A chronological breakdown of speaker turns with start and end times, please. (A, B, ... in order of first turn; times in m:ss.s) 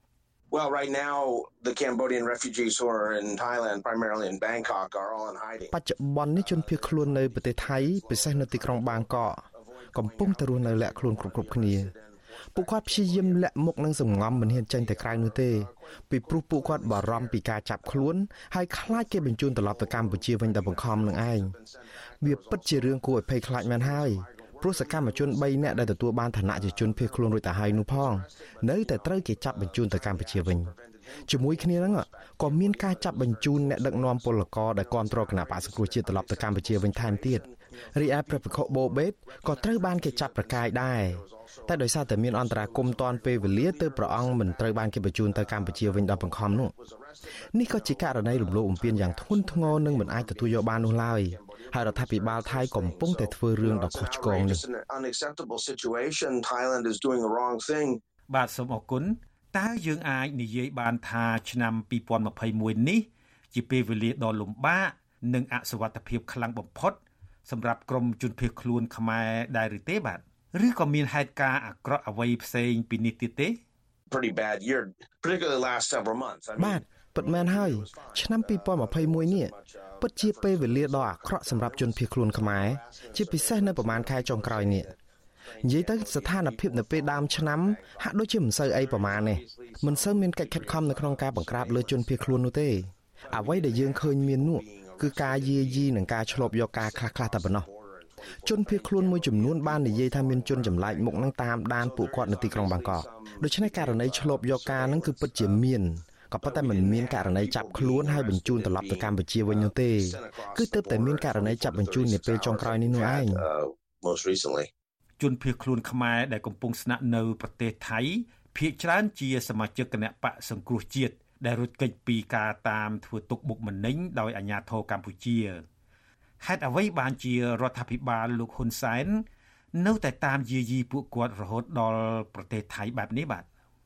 0:00.5-0:05.7 A
0:05.7-0:11.9 B
0:06.3-0:13.4 A
0:12.5-0:21.5 B
0:14.0-0:18.1 A
0:18.8-0:58.0 A
0:22.2-0:30.7 B
0:31.3-0:46.7 B
0:47.5-0:54.6 B
0:58.3-1:13.6 C
1:14.1-1:32.4 A
1:16.6-1:24.9 B
1:25.6-1:37.7 B
1:33.2-1:45.6 A
1:38.4-1:53.4 B
1:46.4-1:54.7 A
1:55.2-2:05.6 C
2:06.4-2:13.5 C